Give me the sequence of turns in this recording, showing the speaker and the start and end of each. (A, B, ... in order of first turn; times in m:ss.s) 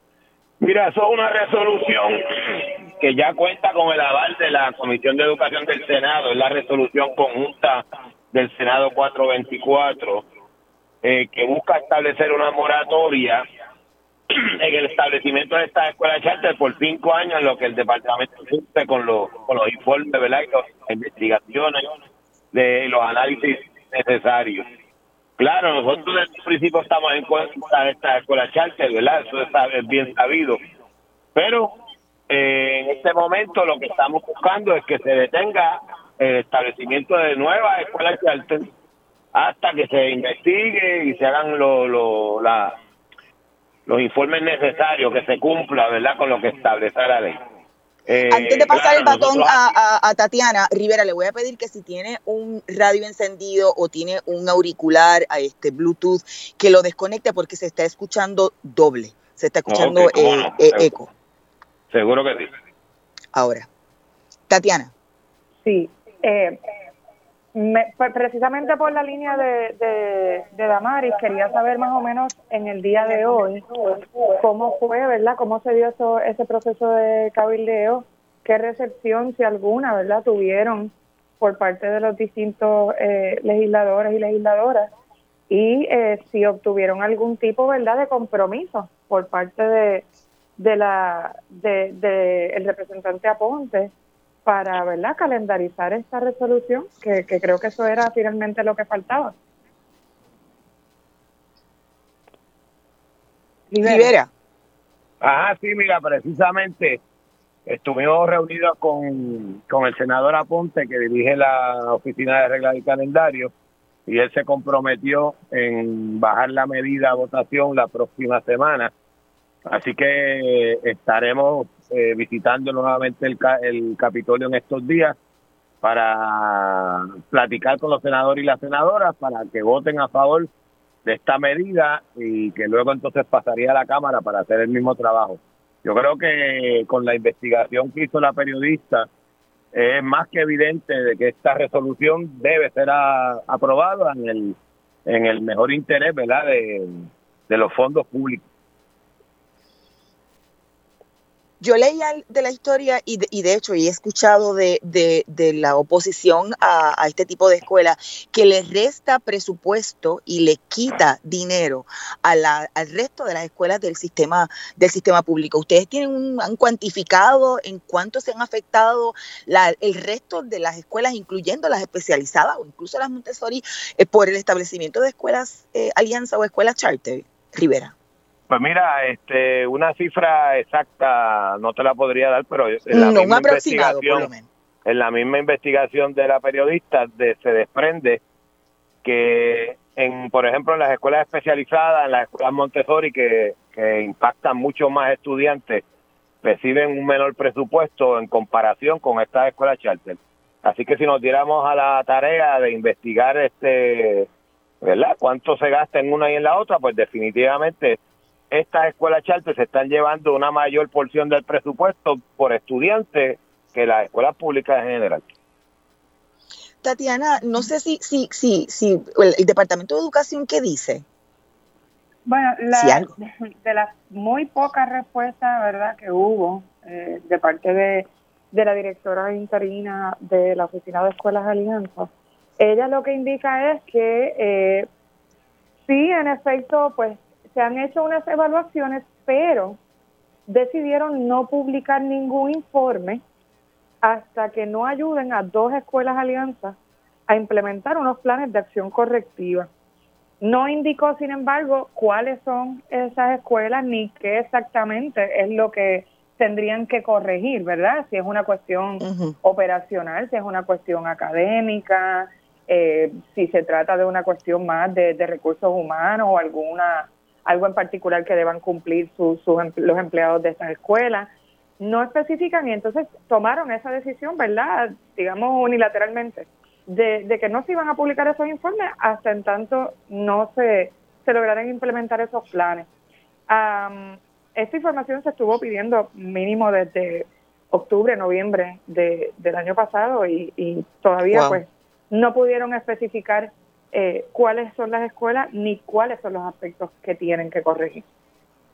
0:00.6-0:10.3 A
0:11.0-0:13.4 A
0:14.3-0:21.9 A
0:22.5-0:24.6 A
0:25.4-0:30.6 A
0:31.4-0:31.8 A
0:32.3-0:38.7 A
0:39.3-0:42.8 A
0:43.9-0:47.4 A
0:48.1-0:49.6 A
0:48.3-1:01.1 B
0:59.7-1:01.0 A
1:01.9-1:02.5 A
1:03.4-1:03.7 B
1:04.5-1:04.9 B
1:05.6-1:06.6 C
1:07.6-1:24.9 C
1:25.5-1:30.1 C
1:30.6-1:33.9 C
1:34.5-1:39.4 C
1:43.7-1:44.1 C
1:43.8-1:44.3 B
1:45.2-1:47.0 A
1:47.7-1:53.5 A
1:54.1-1:58.9 A
1:59.7-2:05.2 A
2:05.8-2:10.5 A
2:11.0-2:19.1 A
2:19.7-2:28.4 A
2:31.6-2:57.9 B
2:58.5-3:04.3 A
3:02.9-3:04.5 B
3:04.8-3:08.2 A
3:09.0-3:15.8 A
3:16.4-3:24.3 A
3:24.8-3:28.0 A
3:28.5-3:35.3 A
3:36.8-3:41.0 B
3:42.3-3:54.9 C
3:42.7-3:43.1 B
3:55.9-3:59.8 C
4:00.5-4:03.2 C
4:04.0-4:06.8 C
4:07.3-4:09.7 C
4:10.4-4:42.9 C
4:19.0-4:19.4 B
4:43.5-4:58.0 C
4:51.3-4:51.6 B